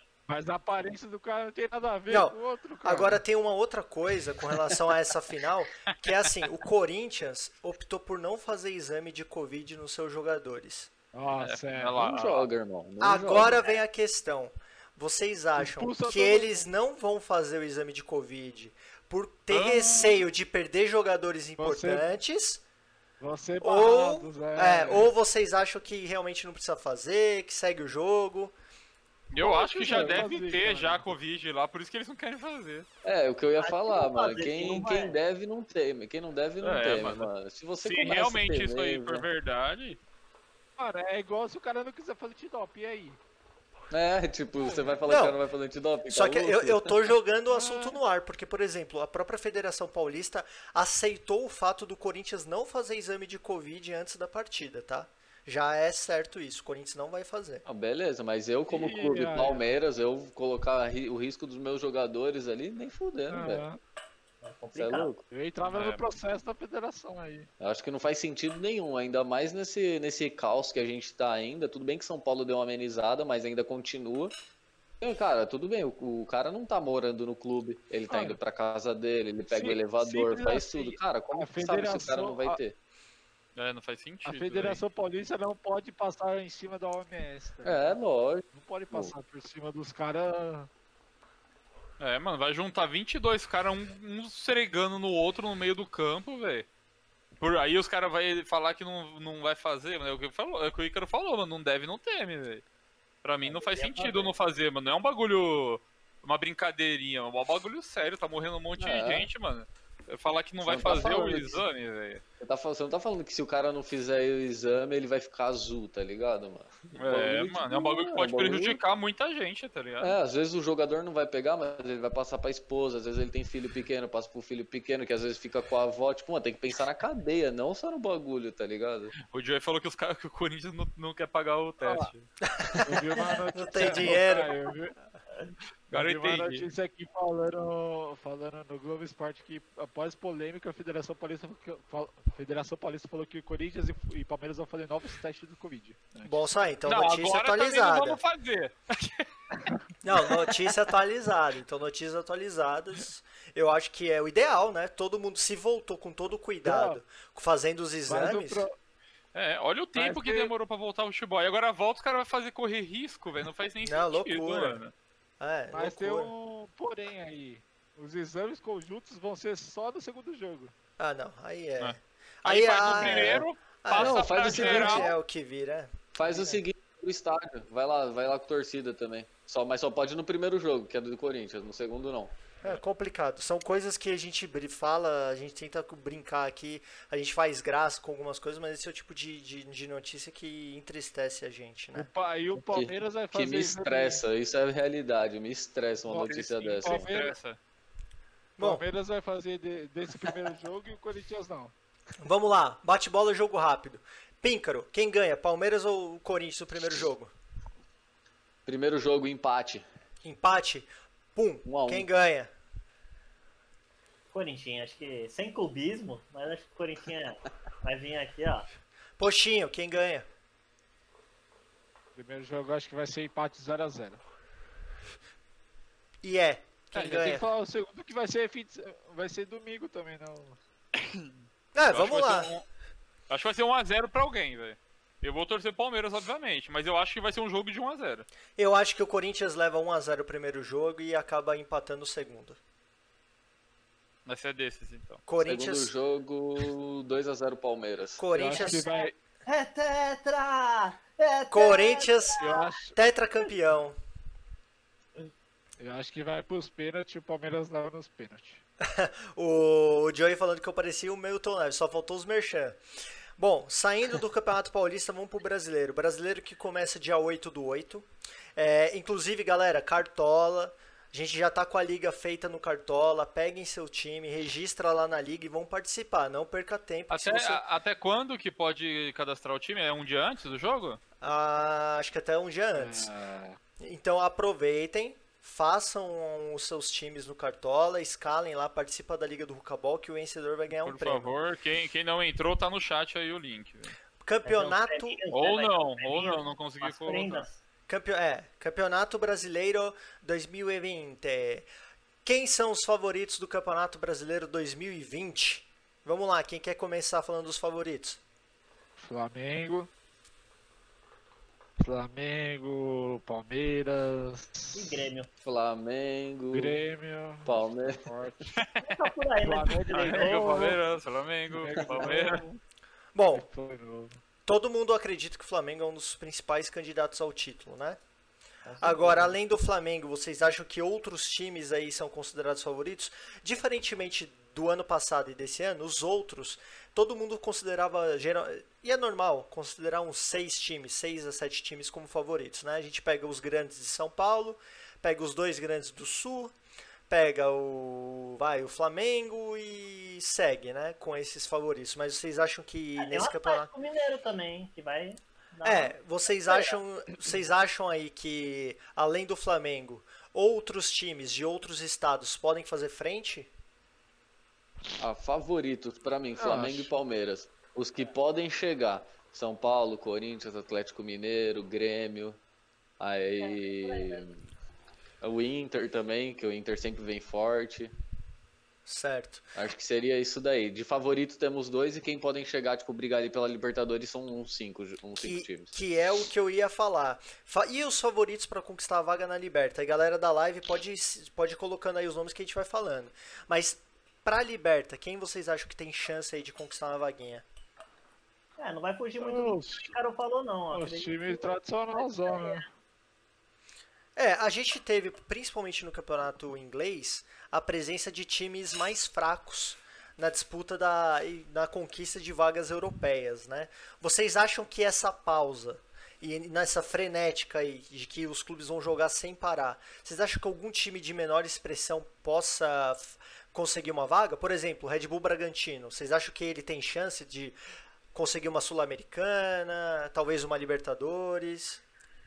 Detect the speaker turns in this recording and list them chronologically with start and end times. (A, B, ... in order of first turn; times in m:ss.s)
0:00.3-0:03.2 A
0:02.1-0:10.9 B
0:11.1-0:12.0 A
0:11.4-0:12.5 C
0:12.0-0:13.7 D
0:13.0-0:22.6 B
0:15.6-0:16.7 A
0:19.5-0:20.2 C
0:21.6-0:22.1 A
0:23.2-0:25.1 A
0:23.6-0:28.5 B
0:29.3-0:32.9 C
0:29.4-0:31.1 A
0:29.4-0:30.3 D
0:33.0-0:39.2 D
0:33.6-0:35.2 E
0:36.6-0:37.3 C
0:37.8-0:40.0 C
0:40.8-0:43.2 A
0:43.9-0:46.9 D
0:45.1-0:45.4 B
0:46.1-0:57.6 B
0:47.5-0:48.0 A
0:57.6-1:03.6 D
0:58.7-0:59.6 A
1:03.3-1:03.8 A
1:04.4-1:05.1 E
1:04.8-1:05.2 D
1:05.2-1:07.5 A
1:05.6-1:06.1 C
1:07.6-1:14.3 D
1:15.0-1:22.8 D
1:18.1-1:18.4 A
1:19.5-1:22.6 A
1:23.6-1:24.8 C
1:24.2-1:28.0 A
1:27.6-1:29.1 D
1:28.5-1:30.7 A
1:32.0-1:36.7 C
1:37.4-1:42.6 C
1:43.2-1:52.2 C
1:43.4-1:44.3 E
1:48.8-1:49.3 D
1:50.6-1:51.6 D
1:52.4-1:58.8 D
1:56.9-2:00.2 C
2:00.0-2:09.1 D
2:09.2-2:12.3 C
2:11.8-2:12.1 A
2:12.4-2:14.5 B
2:12.8-2:14.9 A
2:15.9-2:16.6 C
2:15.9-2:26.5 A
2:26.2-2:28.2 B
2:26.8-2:29.3 C
2:30.0-2:38.6 B
2:36.6-2:37.0 A
2:38.1-2:38.8 A
2:39.3-2:44.9 C
2:40.0-2:40.5 A
2:43.8-2:44.8 B
2:45.4-2:46.3 B
2:45.7-2:50.7 A
2:51.0-2:56.4 B
2:51.8-2:55.1 C
2:52.9-2:53.3 D
2:53.9-2:55.1 D
2:56.1-3:02.4 D
2:56.3-2:56.6 A
3:02.6-3:12.1 B
3:11.9-3:14.2 A
3:12.7-3:17.1 D
3:16.2-3:17.6 C
3:16.8-3:17.4 A
3:18.6-3:18.8 B
3:18.6-3:21.7 A
3:22.2-3:27.3 B
3:28.6-3:29.8 D
3:30.2-3:32.5 B
3:31.6-3:32.1 D
3:34.3-3:38.7 E
3:39.2-3:40.2 B
3:42.1-3:44.2 A
3:46.2-3:47.4 B
3:46.9-3:50.6 A
3:51.0-3:51.3 C
3:51.7-3:52.5 B
3:51.9-3:52.6 C
3:53.3-3:58.3 C
3:58.6-4:02.6 B
4:04.2-4:05.2 C
4:05.3-4:05.9 B
4:05.4-4:08.2 D
4:08.2-4:08.9 B
4:08.3-4:09.1 A
4:08.5-4:12.8 E
4:11.5-4:14.0 B
4:12.4-4:13.0 A
4:15.8-4:18.6 A
4:18.8-4:22.8 B
4:23.4-4:37.6 B
4:37.1-4:41.0 C
4:41.2-4:43.1 B
4:42.7-4:43.6 A
4:43.8-4:51.3 B
4:50.8-4:54.0 C
4:54.2-4:55.2 B
4:54.4-4:57.6 E
4:55.3-4:57.5 C
4:57.9-5:01.7 B
5:02.2-5:08.2 B
5:09.0-5:09.9 A
5:11.8-5:15.1 A
5:14.7-5:15.3 E
5:15.4-5:16.8 D
5:16.5-5:18.5 A
5:17.4-5:18.1 D
5:18.5-5:19.1 C
5:18.8-5:20.8 E
5:19.4-5:20.4 A
5:19.9-5:22.4 C
5:21.5-5:22.6 A
5:23.1-5:23.4 B
5:23.3-5:24.2 A
5:24.4-5:28.0 B
5:28.6-5:29.3 E
5:28.8-5:46.5 B
5:47.1-5:53.7 B
5:53.0-5:56.8 E
5:55.6-6:03.5 B
6:05.0-6:12.4 D
6:06.4-6:07.0 A
6:13.0-6:14.4 D
6:13.4-6:14.2 E
6:15.2-6:17.9 D
6:18.8-6:19.5 B
6:19.5-6:25.8 D
6:25.2-6:37.4 B
6:38.6-6:42.6 E
6:39.2-6:39.9 A
6:40.7-6:42.6 A
6:44.2-7:07.6 B
7:08.1-7:11.8 B